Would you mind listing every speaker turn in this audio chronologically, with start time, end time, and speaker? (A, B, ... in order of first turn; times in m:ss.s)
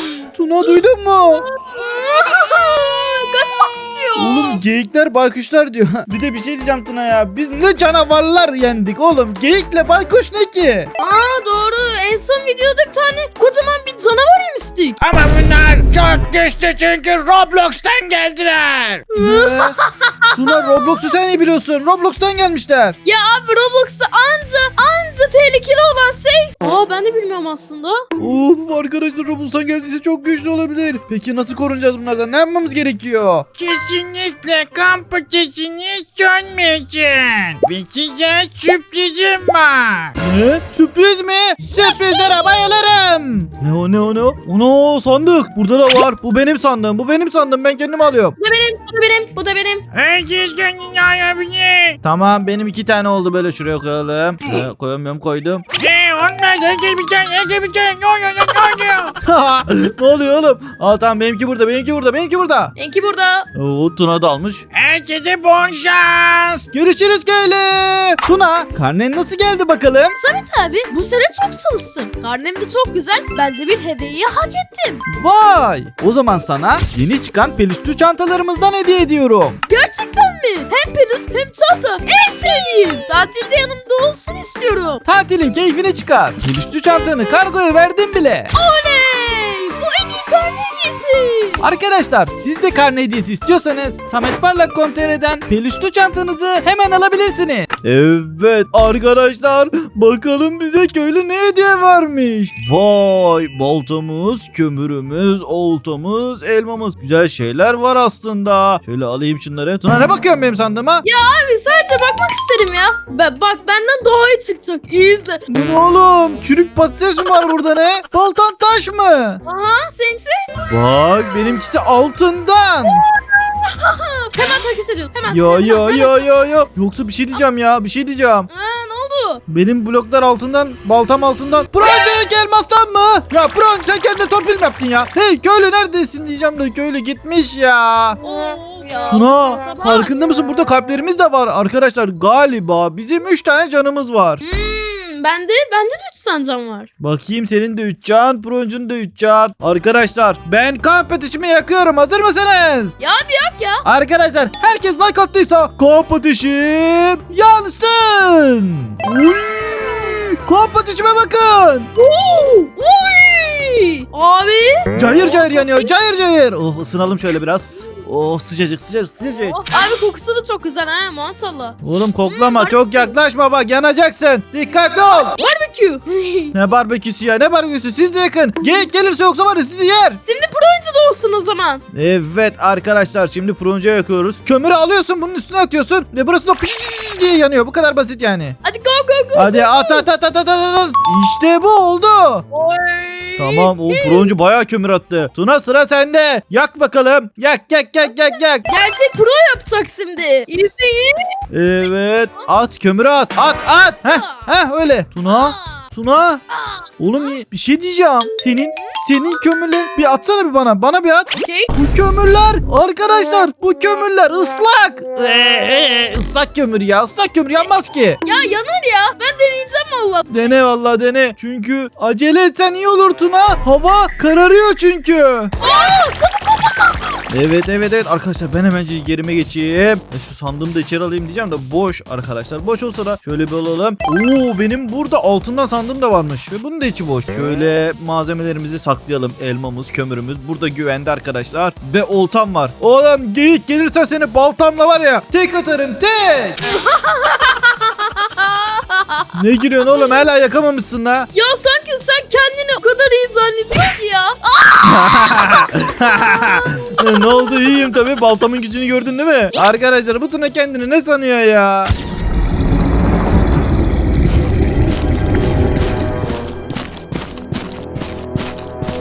0:00.3-0:01.4 A
0:01.3-0:04.6 B
0:04.2-0:10.9 A
0:11.0-0:15.0 B
0:15.0-0:19.1 C
0:19.1-0:20.8 B
0:19.2-0:19.8 A
0:20.3-0:23.0 A
0:23.0-0:28.0 B
0:28.2-0:33.5 A
0:33.6-0:40.1 C
0:40.2-0:48.4 A
0:41.8-0:42.7 B
0:48.4-0:49.8 B
0:49.9-0:52.0 C
0:52.0-0:55.6 A
0:55.8-0:59.2 C
0:59.2-1:02.7 A
1:02.8-1:03.5 B
1:03.5-1:04.6 A
1:04.7-1:06.7 C
1:06.7-1:10.2 A
1:10.2-1:15.0 B
1:15.1-1:19.6 A
1:19.7-1:25.0 B
1:25.0-1:28.5 A
1:28.5-1:31.7 B
1:31.6-1:51.0 A
1:51.0-1:55.4 B
1:55.5-1:59.4 A
1:59.4-2:00.4 B
2:00.7-2:03.0 A
2:02.8-2:06.1 B
2:05.3-2:08.5 A
2:08.5-2:09.4 B
2:09.5-2:18.2 A
2:18.2-2:20.1 B
2:19.1-2:24.4 A
2:24.4-2:26.9 B
2:27.0-2:32.9 A
2:33.0-2:33.8 B
2:33.8-2:41.9 A
2:42.0-2:45.9 B
2:44.9-2:49.6 A
2:49.5-2:53.1 B
2:51.8-2:55.4 A
2:55.2-2:56.5 B
2:56.5-3:00.2 A
3:00.2-3:01.8 B
3:01.9-3:08.6 A
3:08.6-3:10.1 B
3:09.3-3:12.4 A
3:12.5-3:14.3 B
3:13.4-3:18.7 A
3:18.7-3:21.3 B
3:21.5-3:26.4 A
3:24.0-3:24.5 B
3:25.3-3:25.8 B
3:26.5-3:26.8 B
3:27.0-3:38.2 A
3:31.3-3:31.7 B
3:38.2-3:40.3 B
3:40.3-3:45.5 A
3:45.6-3:47.2 B
3:47.3-4:06.6 A
4:06.7-4:10.3 B
4:09.3-4:11.3 A
4:11.3-4:17.1 B
4:14.8-4:21.9 A